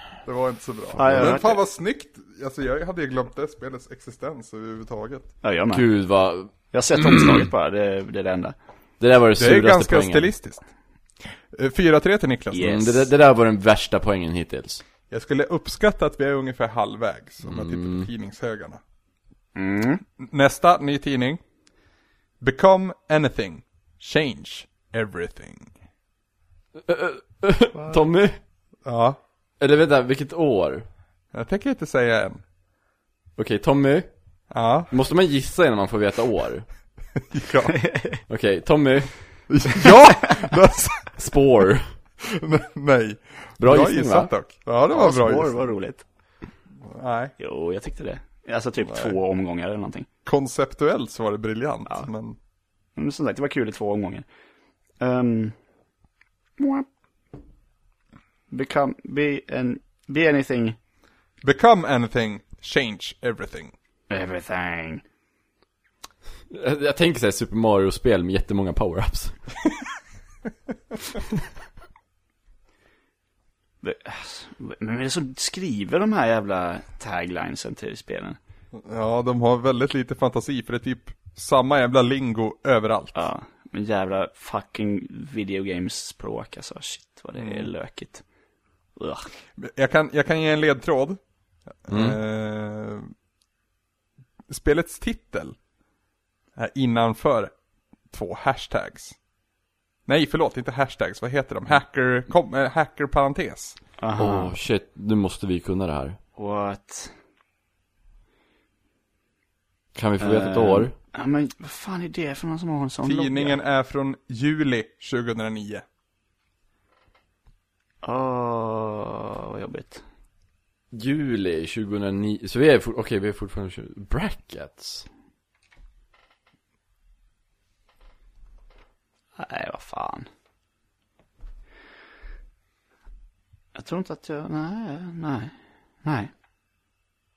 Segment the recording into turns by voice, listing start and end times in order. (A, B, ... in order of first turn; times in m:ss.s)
0:00.2-0:05.3 A
0:01.0-0:01.6 B
0:01.0-0:01.4 C
0:05.4-0:05.9 B
0:05.7-0:07.5 C
0:06.7-0:08.6 B
0:09.0-0:10.3 C
0:09.4-0:10.6 A
0:11.5-0:12.9 A
0:12.5-0:13.0 B
0:12.6-0:14.8 C
0:15.1-0:18.8 A
0:17.4-0:18.1 C
0:19.5-0:20.0 B
0:20.2-0:21.4 A
0:22.4-0:25.7 A
0:26.8-0:28.4 C
0:28.8-0:29.2 A
0:29.6-0:30.8 C
0:31.3-0:32.4 A
0:33.4-0:34.1 C
0:34.5-0:34.9 A
0:34.9-0:36.6 C
0:37.3-0:37.9 A
0:37.8-0:38.2 B
0:38.3-0:39.1 C
0:39.5-0:41.1 A
0:41.2-0:41.9 C
0:42.2-0:45.6 A
0:43.6-0:44.3 C
0:44.9-0:46.0 B
0:46.8-0:47.3 A
0:47.4-0:50.1 B
0:48.9-0:49.1 A
0:50.2-0:52.4 A
0:53.0-0:54.2 B
0:55.0-0:55.5 B
0:56.6-0:56.8 B
0:58.5-1:00.8 B
1:01.4-1:03.7 A
1:04.1-1:05.0 B
1:06.5-1:09.4 C
1:13.8-1:18.4 B
1:18.7-1:23.2 A
1:23.1-1:28.2 B
1:27.4-1:27.7 A
1:29.0-1:29.3 B
1:29.6-1:31.2 A
1:31.8-1:33.1 A
1:31.9-1:32.2 C
1:34.5-1:35.6 A
1:36.6-1:37.5 A
1:38.1-1:39.2 A
1:40.1-1:43.8 A
1:44.0-1:44.6 B
1:44.2-1:46.2 C
1:46.4-1:47.1 B
1:49.9-1:50.9 C
1:50.2-1:53.6 B
1:53.0-1:55.8 A
1:58.0-2:00.0 B
2:00.9-2:05.1 C
2:09.4-2:10.3 B
2:13.7-2:15.5 B
2:16.0-2:16.3 B